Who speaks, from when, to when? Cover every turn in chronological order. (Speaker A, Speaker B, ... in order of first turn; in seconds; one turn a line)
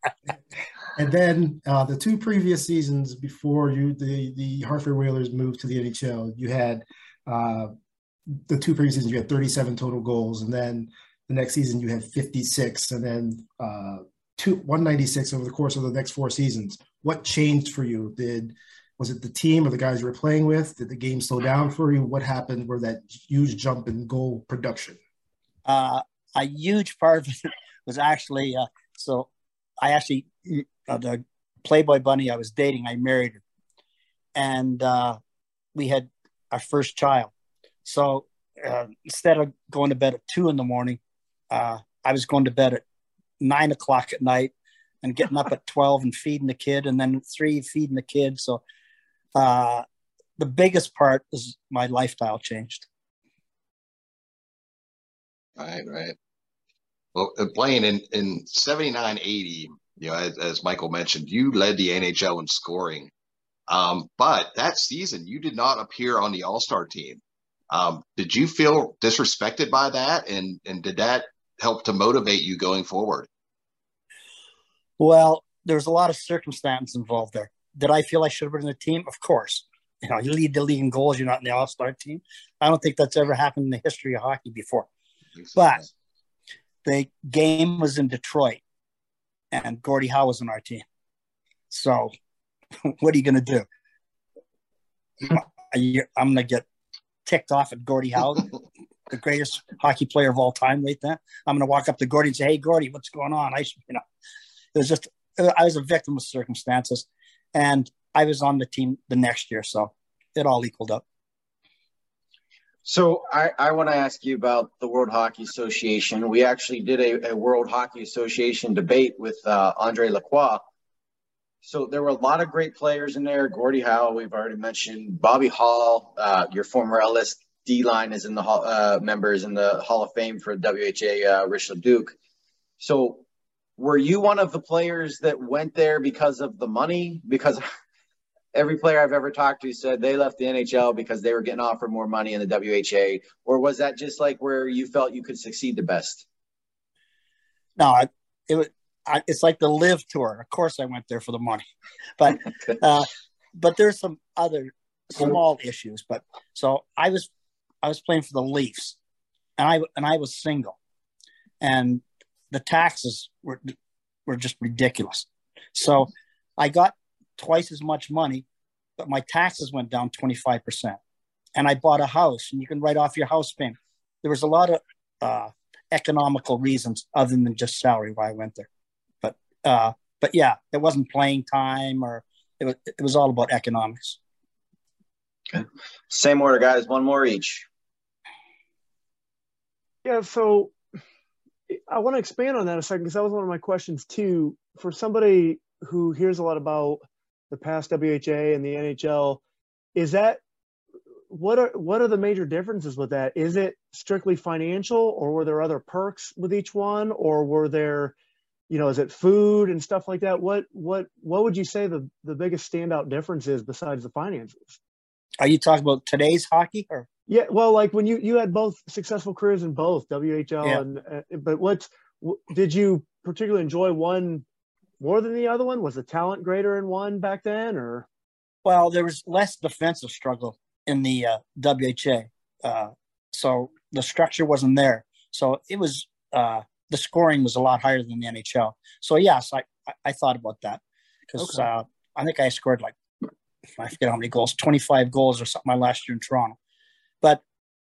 Speaker A: 0.9-7.7
Speaker A: 8.5-25.0
Speaker B: 25.6-29.3
Speaker B: 29.8-33.4
Speaker B: 34.4-35.2
Speaker B: 35.7-37.3
Speaker B: 37.8-42.8
Speaker B: 43.4-48.6
Speaker B: 49.4-49.8
Speaker B: 50.4-52.9
Speaker C: 55.6-56.1
Speaker C: 57.1-63.1
Speaker C: 63.7-73.3
Speaker B: 75.0-84.9
Speaker B: 85.5-85.8
Speaker B: 86.8-88.6
Speaker B: 89.5-90.8
Speaker B: 91.7-92.1
Speaker B: 92.8-93.6
Speaker B: 95.2-96.6
Speaker B: 97.2-98.5
Speaker B: 99.1-104.0
Speaker B: 104.7-111.0
Speaker D: 112.8-120.7
Speaker D: 121.6-132.2
Speaker D: 132.8-133.2
Speaker D: 133.8-137.6
Speaker D: 138.5-146.2
Speaker B: 147.8-151.6
Speaker B: 152.2-157.3
Speaker B: 157.8-158.9
Speaker B: 159.6-160.8
Speaker B: 161.6-163.7
Speaker B: 164.2-168.4
Speaker B: 169.0-171.0
Speaker B: 171.6-178.7
Speaker B: 179.2-184.2
Speaker D: 185.5-187.7
Speaker E: 190.0-190.7
Speaker E: 191.7-197.0
Speaker E: 197.5-199.4
Speaker E: 199.9-200.4
Speaker E: 201.3-208.1
Speaker E: 208.7-214.8
Speaker B: 215.4-217.1
Speaker E: 217.3-224.4
Speaker E: 225.0-228.1
Speaker B: 228.6-242.9
Speaker B: 243.8-246.6